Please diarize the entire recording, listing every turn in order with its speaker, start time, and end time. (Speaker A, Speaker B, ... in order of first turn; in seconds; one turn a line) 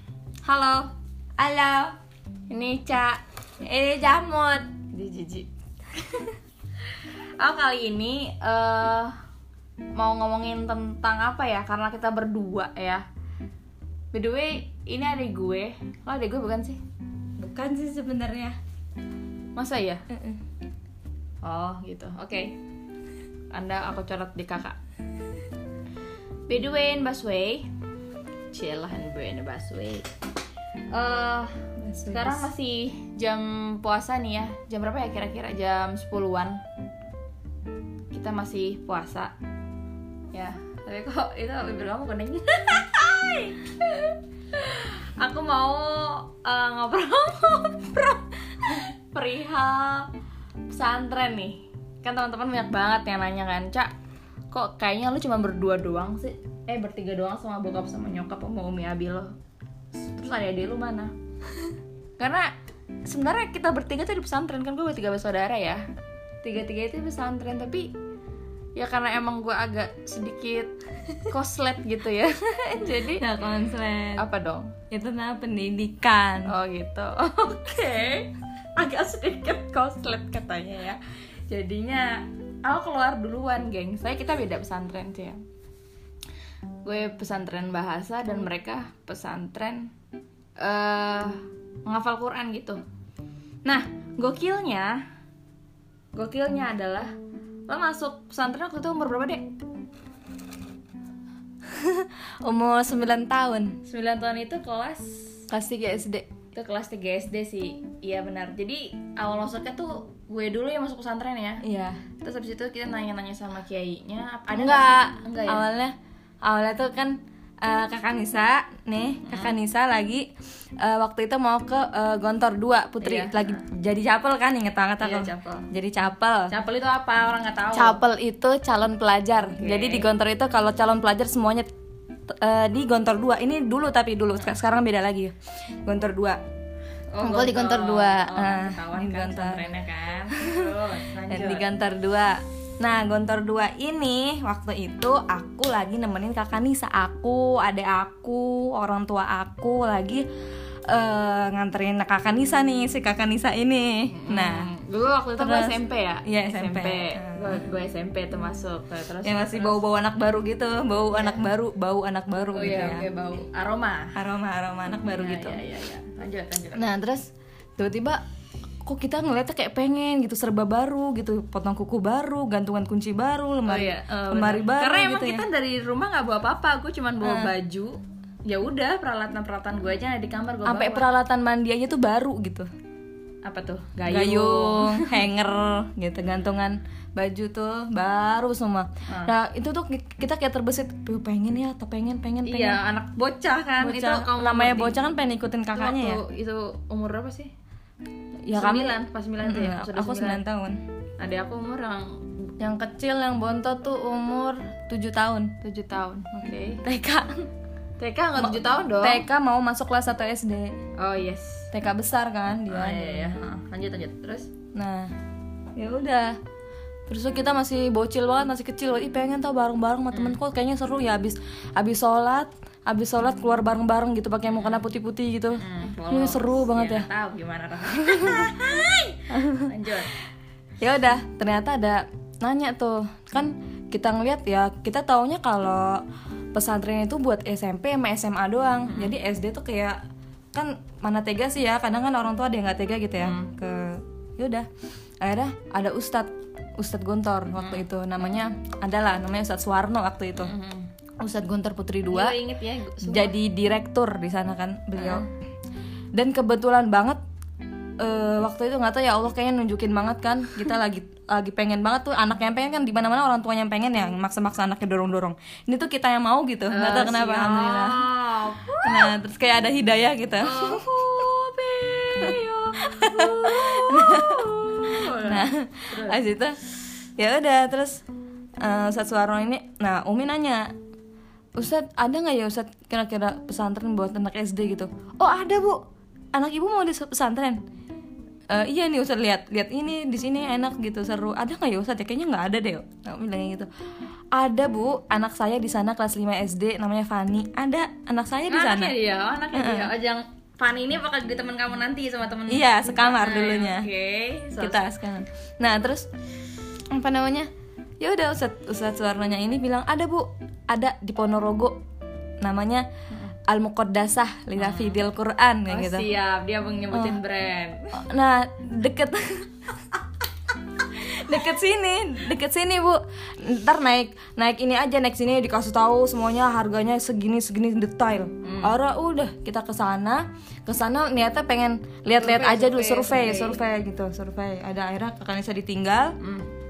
Speaker A: 0.4-0.9
Speaker B: 1.4-2.0
Speaker A: 2.5-3.2
Speaker B: 3.6-4.7
Speaker A: 4.7-5.5
Speaker A: 7.4-9.2
Speaker A: 10.0-13.0
Speaker A: 14.1-16.8
Speaker B: 17.4-18.6
Speaker A: 19.5-20.0
Speaker B: 20.1-20.4
Speaker A: 21.4-22.6
Speaker A: 23.5-24.8
Speaker A: 26.5-27.7
Speaker A: 28.5-30.1
Speaker A: 30.9-36.6
Speaker B: 31.8-32.5
Speaker A: 38.1-39.3
Speaker A: 40.3-50.1
Speaker A: 50.7-53.9
Speaker A: 54.5-59.3
Speaker A: 59.9-61.1
Speaker A: 62.2-62.5
Speaker A: 63.0-65.8
Speaker A: 66.4-67.9
Speaker A: 68.8-70.7
Speaker A: 71.2-73.2
Speaker B: 72.9-74.2
Speaker A: 74.2-74.8
Speaker B: 74.9-76.5
Speaker A: 76.5-85.4
Speaker A: 86.8-89.9
Speaker A: 90.6-92.8
Speaker A: 93.6-95.0
Speaker A: 96.1-97.1
Speaker A: 97.7-99.4
Speaker B: 101.7-103.8
Speaker A: 103.8-105.5
Speaker B: 105.5-106.3
Speaker A: 106.5-111.6
Speaker B: 111.6-112.0
Speaker A: 112.2-115.6
Speaker B: 114.5-120.3
Speaker A: 119.2-119.5
Speaker B: 120.8-126.5
Speaker A: 123.0-123.6
Speaker A: 125.0-125.7
Speaker A: 126.5-128.0
Speaker B: 127.7-131.7
Speaker A: 129.4-130.1
Speaker B: 132.4-136.4
Speaker A: 137.1-141.7
Speaker B: 137.2-139.7
Speaker B: 140.4-140.7
Speaker B: 141.3-150.2
Speaker B: 150.9-154.7
Speaker A: 154.1-159.8
Speaker B: 155.4-157.6
Speaker B: 159.2-163.1
Speaker A: 161.1-161.4
Speaker A: 162.5-164.2
Speaker B: 164.1-165.6
Speaker A: 165.1-166.8
Speaker B: 166.7-168.2
Speaker B: 168.8-175.4
Speaker A: 173.7-181.1
Speaker B: 177.2-177.5
Speaker B: 180.6-182.7
Speaker A: 183.4-185.2
Speaker B: 184.0-192.8
Speaker A: 189.1-189.3
Speaker A: 192.4-195.0
Speaker B: 193.8-196.2
Speaker A: 195.7-197.5
Speaker B: 198.4-200.8
Speaker A: 198.5-200.4
Speaker A: 201.2-202.3
Speaker B: 202.6-205.5
Speaker A: 205.6-206.8
Speaker B: 206.8-207.4
Speaker A: 208.0-209.2
Speaker B: 208.4-210.8
Speaker A: 211.0-211.7
Speaker B: 211.7-213.4
Speaker A: 212.7-214.5
Speaker B: 214.7-215.1
Speaker B: 215.7-216.4
Speaker B: 217.1-227.1
Speaker A: 220.1-220.4
Speaker A: 224.5-224.8
Speaker A: 225.5-230.1
Speaker B: 228.0-228.5
Speaker B: 229.3-229.7
Speaker B: 230.8-236.0
Speaker B: 236.5-240.0
Speaker A: 238.9-239.2
Speaker B: 240.5-244.7
Speaker A: 243.2-243.5
Speaker B: 245.2-250.5
Speaker A: 247.6-247.9
Speaker A: 250.4-250.9
Speaker B: 251.2-252.4
Speaker A: 252.1-253.3
Speaker B: 253.0-255.3
Speaker A: 255.0-255.3
Speaker B: 256.1-257.2
Speaker B: 258.0-268.1
Speaker A: 266.7-269.1
Speaker B: 268.8-270.8
Speaker A: 270.4-276.2
Speaker B: 272.2-276.6
Speaker B: 277.2-278.0
Speaker B: 278.6-280.7
Speaker B: 281.5-285.8
Speaker B: 286.3-287.6
Speaker B: 288.5-293.7
Speaker B: 294.3-298.9
Speaker A: 298.5-304.9
Speaker B: 299.5-299.9
Speaker B: 302.5-303.9
Speaker B: 304.5-306.1
Speaker B: 306.9-311.8
Speaker B: 312.4-312.9
Speaker B: 313.5-316.1
Speaker A: 314.6-315.0
Speaker A: 315.7-318.0
Speaker B: 316.9-317.2
Speaker B: 318.0-319.5
Speaker B: 320.9-336.1
Speaker A: 328.4-328.8
Speaker A: 332.2-333.6
Speaker A: 336.2-336.5